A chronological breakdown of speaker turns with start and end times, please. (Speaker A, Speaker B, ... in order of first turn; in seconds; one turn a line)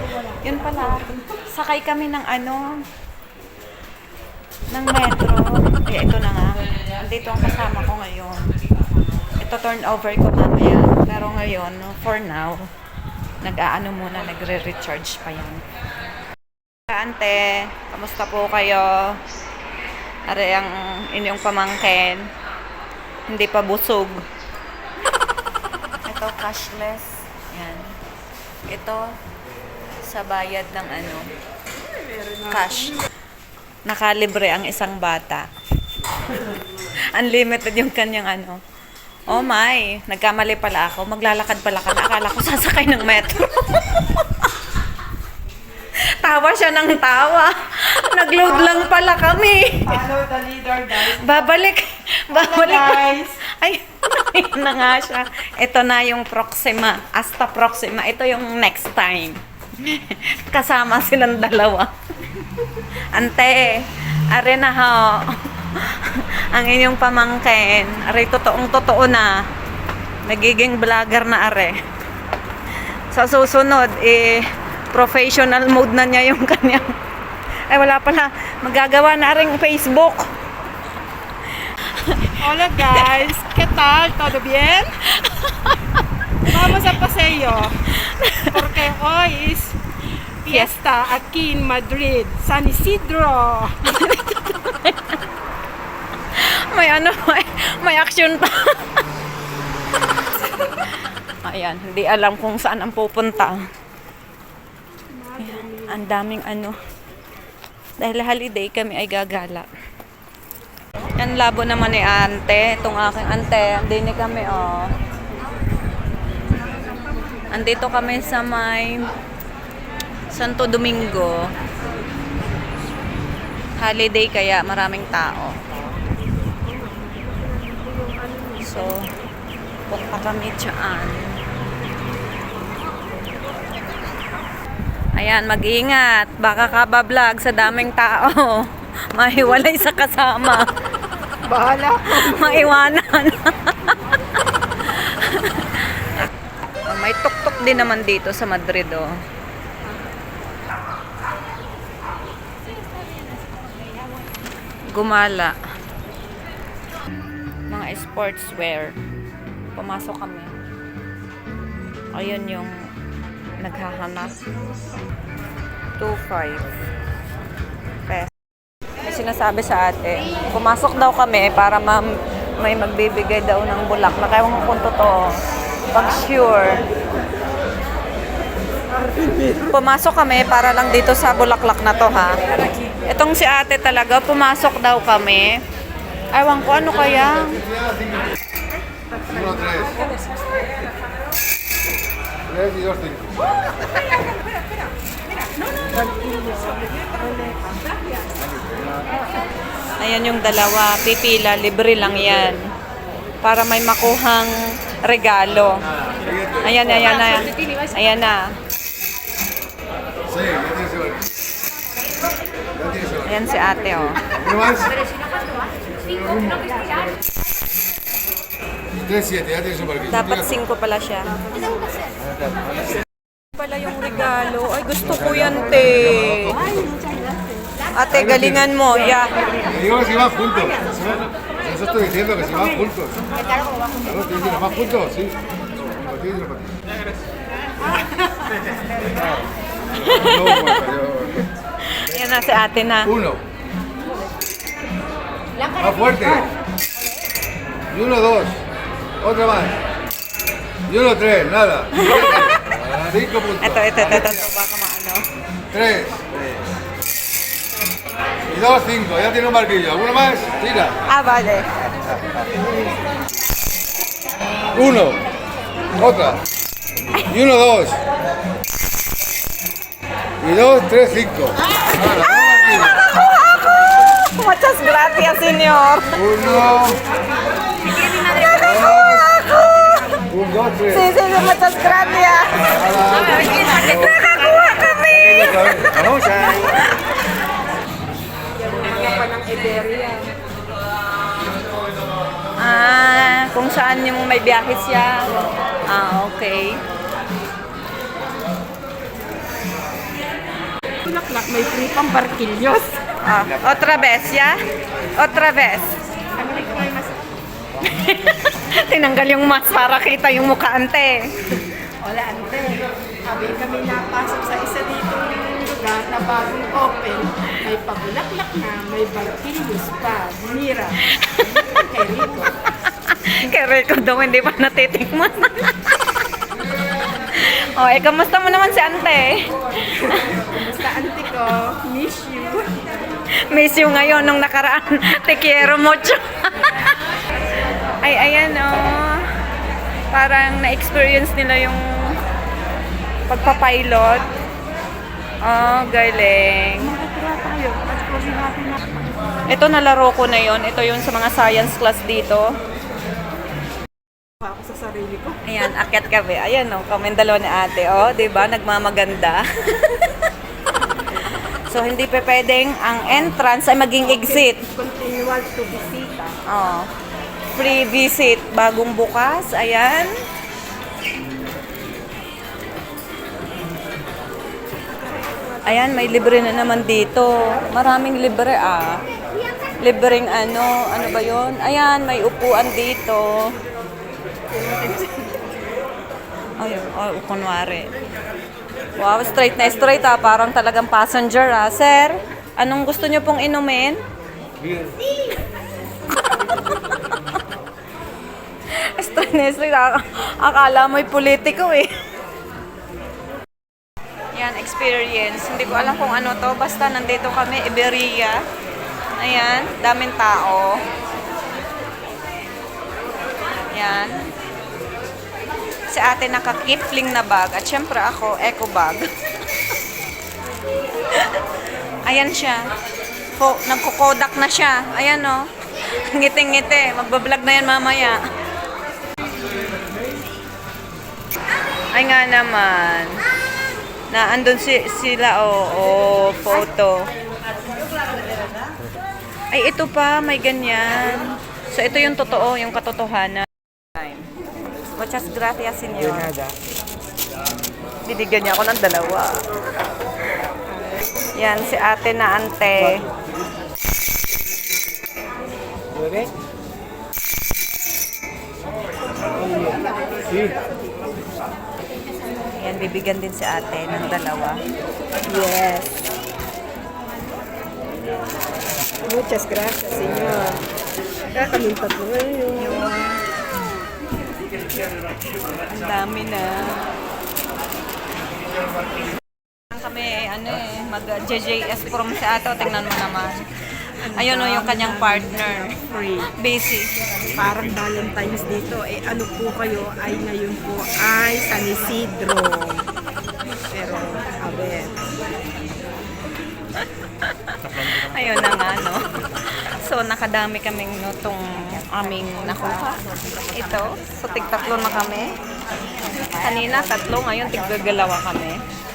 Speaker A: 0.4-2.7
Speaker A: 4.7-8.5
Speaker A: 9.4-12.7
Speaker A: 13.4-15.6
Speaker A: 16.9-19.2
Speaker A: 20.3-22.2
Speaker A: 23.3-24.2
Speaker A: 26.1-27.9
Speaker A: 28.7-29.0
Speaker A: 30.1-31.3
Speaker B: 31.8-32.9
Speaker A: 32.5-33.0
Speaker A: 33.9-35.5
Speaker A: 37.1-38.6
Speaker A: 39.3-44.3
Speaker A: 46.0-50.0
Speaker B: 48.4-48.9
Speaker B: 49.8-51.5
Speaker A: 51.0-61.9
Speaker B: 52.3-53.4
Speaker A: 63.1-69.4
Speaker A: 70.2-71.8
Speaker A: 73.1-76.9
Speaker A: 77.7-80.3
Speaker A: 81.6-83.1
Speaker B: 82.4-85.0
Speaker A: 85.1-85.8
Speaker B: 86.4-87.9
Speaker A: 88.0-88.6
Speaker B: 88.4-89.8
Speaker B: 90.4-94.0
Speaker A: 90.5-90.7
Speaker A: 93.9-95.2
Speaker A: 96.3-99.0
Speaker A: 100.3-100.8
Speaker A: 101.4-103.6
Speaker B: 105.1-106.0
Speaker A: 105.4-106.8
Speaker A: 108.0-109.7
Speaker A: 111.2-114.9
Speaker B: 116.7-117.4
Speaker A: 117.5-119.1
Speaker A: 120.3-121.5
Speaker A: 123.8-125.6
Speaker B: 126.6-129.0
Speaker A: 128.6-129.0
Speaker A: 129.9-131.3
Speaker A: 135.2-140.7
Speaker B: 141.4-142.8
Speaker A: 142.1-144.0
Speaker A: 144.8-146.3
Speaker A: 146.9-149.1
Speaker B: 149.8-150.1
Speaker A: 154.9-155.5
Speaker A: 157.7-158.9
Speaker A: 159.7-160.5
Speaker A: 162.1-162.7
Speaker A: 163.6-164.4
Speaker A: 166.0-166.7
Speaker A: 169.0-175.3
Speaker A: 175.9-176.8
Speaker B: 178.9-179.7
Speaker A: 179.7-182.4
Speaker A: 183.0-185.6
Speaker A: 186.3-187.6
Speaker B: 188.7-190.3
Speaker C: 192.4-193.3
Speaker B: 195.3-198.3
Speaker A: 200.0-202.6
Speaker A: 203.4-205.8
Speaker A: 206.5-208.5
Speaker C: 210.3-211.2
Speaker A: 213.1-214.2
Speaker C: 214.4-214.9
Speaker C: 219.0-220.0
Speaker A: 220.0-221.4
Speaker A: 223.5-226.6
Speaker B: 226.4-227.8
Speaker A: 227.9-229.4
Speaker B: 229.6-231.1
Speaker C: 229.7-230.7
Speaker C: 231.6-233.1
Speaker B: 232.2-234.7
Speaker C: 234.1-235.3
Speaker C: 235.9-236.7
Speaker B: 237.9-238.4
Speaker A: 239.9-241.1
Speaker C: 240.2-241.4
Speaker A: 241.9-243.4
Speaker C: 245.7-246.4
Speaker C: 247.9-248.6
Speaker C: 249.2-249.7
Speaker C: 250.8-254.0
Speaker A: 251.9-252.8
Speaker A: 253.4-255.3
Speaker C: 255.7-256.2
Speaker C: 258.5-260.9
Speaker A: 261.1-261.7
Speaker C: 264.7-265.2
Speaker C: 266.0-266.4
Speaker A: 267.1-267.5
Speaker C: 267.4-268.0
Speaker C: 270.4-272.9
Speaker A: 271.8-276.5
Speaker C: 276.2-277.0
Speaker A: 277.9-280.1
Speaker C: 278.6-279.1
Speaker C: 280.3-280.9
Speaker A: 280.8-287.1
Speaker C: 282.8-283.3
Speaker B: 283.3-283.6
Speaker C: 285.3-286.5
Speaker B: 288.5-290.3
Speaker A: 292.6-296.8
Speaker B: 301.0-303.0
Speaker A: 303.2-304.5
Speaker A: 305.2-305.9
Speaker B: 306.4-307.3
Speaker A: 307.8-311.5
Speaker B: 312.0-321.2
Speaker A: 321.2-321.7
Speaker B: 321.7-322.6
Speaker A: 323.0-325.9
Speaker A: 327.3-329.5
Speaker B: 329.8-332.7
Speaker A: 333.5-336.9
Speaker A: 338.0-339.2
Speaker A: 340.1-342.2
Speaker A: 343.3-344.3
Speaker A: 345.4-346.9
Speaker B: 346.8-349.3
Speaker A: 349.5-352.5
Speaker B: 354.4-355.4
Speaker A: 355.4-360.2
Speaker A: 361.6-364.6
Speaker B: 364.0-366.3
Speaker A: 366.5-366.9
Speaker A: 367.5-370.1
Speaker A: 375.6-379.0
Speaker A: 379.8-383.5
Speaker B: 384.5-385.4
Speaker A: 386.6-387.9
Speaker A: 388.9-394.0
Speaker A: 398.7-401.9
Speaker A: 404.3-408.4
Speaker A: 409.2-410.8
Speaker A: 413.7-414.2
Speaker A: 415.9-419.1
Speaker A: 421.1-421.4
Speaker A: 422.0-422.7
Speaker A: 423.4-428.2
Speaker A: 431.9-433.2
Speaker A: 434.1-437.1
Speaker A: 439.5-444.3
Speaker A: 444.9-446.4
Speaker A: 448.1-449.4
Speaker B: 450.7-451.0
Speaker A: 451.4-453.0
Speaker B: 459.3-460.8
Speaker A: 462.6-464.6
Speaker B: 465.2-466.1
Speaker B: 469.0-470.7
Speaker B: 471.3-472.9
Speaker A: 472.6-473.2
Speaker A: 475.7-476.9
Speaker A: 479.7-483.4
Speaker B: 484.0-486.3
Speaker A: 484.1-485.8
Speaker A: 486.4-486.9
Speaker B: 487.3-492.9
Speaker B: 493.7-494.9
Speaker A: 496.8-499.0
Speaker A: 499.8-503.0
Speaker A: 503.5-505.3
Speaker A: 506.3-508.6